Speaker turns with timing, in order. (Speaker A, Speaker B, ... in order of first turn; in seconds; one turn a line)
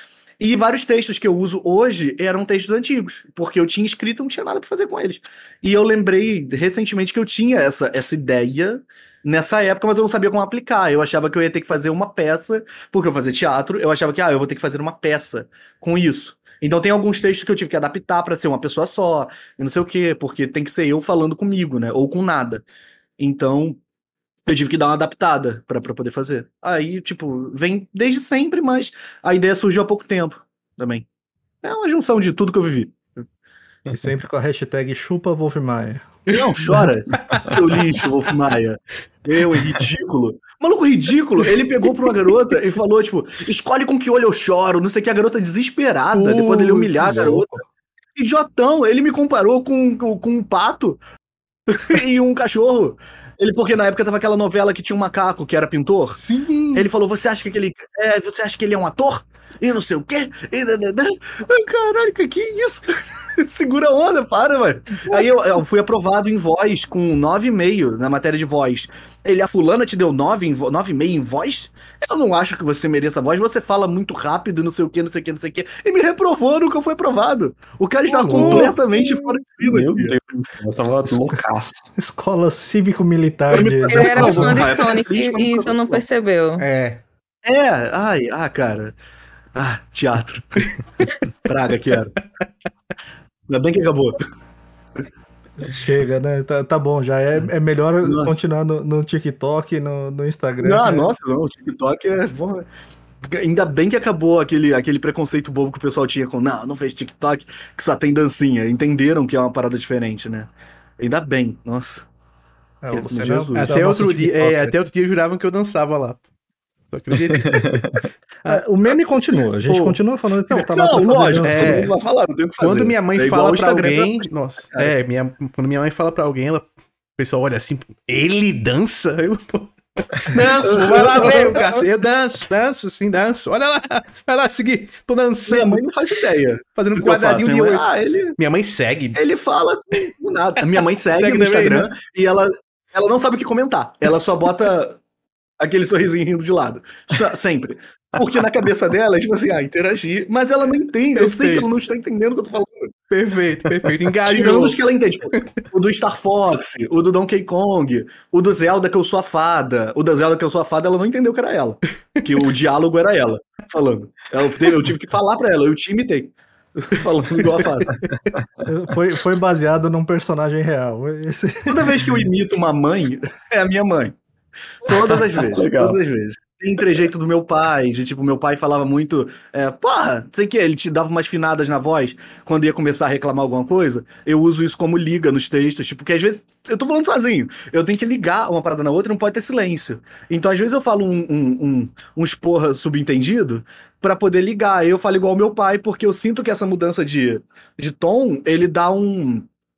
Speaker A: 0.4-22.6
Speaker A: 23.2-23.8
Speaker A: 24.5-31.1
Speaker A: 31.6-33.2
Speaker B: 33.9-36.1
Speaker A: 36.3-47.5
Speaker C: 37.2-37.8
Speaker C: 46.1-47.4
Speaker B: 47.0-47.6
Speaker A: 48.1-51.0
Speaker A: 51.7-56.2
Speaker C: 56.1-56.9
Speaker A: 56.7-80.1
Speaker B: 78.1-79.3
Speaker C: 78.3-78.8
Speaker D: 79.6-81.8
Speaker B: 82.0-84.7
Speaker A: 83.5-86.0
Speaker E: 83.9-86.6
Speaker C: 86.6-87.0
Speaker A: 87.4-88.9
Speaker A: 89.5-90.7
Speaker A: 91.4-92.2
Speaker A: 93.5-94.2
Speaker B: 95.6-101.1
Speaker A: 98.0-98.4
Speaker A: 100.6-102.7
Speaker A: 103.2-112.1
Speaker B: 112.8-114.8
Speaker A: 112.9-113.8
Speaker C: 113.5-116.2
Speaker C: 116.9-118.6
Speaker D: 117.3-118.0
Speaker B: 118.4-121.8
Speaker C: 119.7-120.0
Speaker A: 120.6-124.9
Speaker C: 121.4-121.9
Speaker C: 122.6-135.8
Speaker A: 130.3-131.8
Speaker A: 135.5-138.3
Speaker C: 136.7-139.2
Speaker A: 139.2-145.0
Speaker C: 141.1-141.9
Speaker A: 145.6-152.9
Speaker C: 151.1-151.7
Speaker C: 153.1-154.8
Speaker A: 154.2-168.0
Speaker D: 167.9-168.4
Speaker B: 168.7-171.8
Speaker A: 171.7-174.2
Speaker A: 174.8-199.5
Speaker D: 174.9-176.0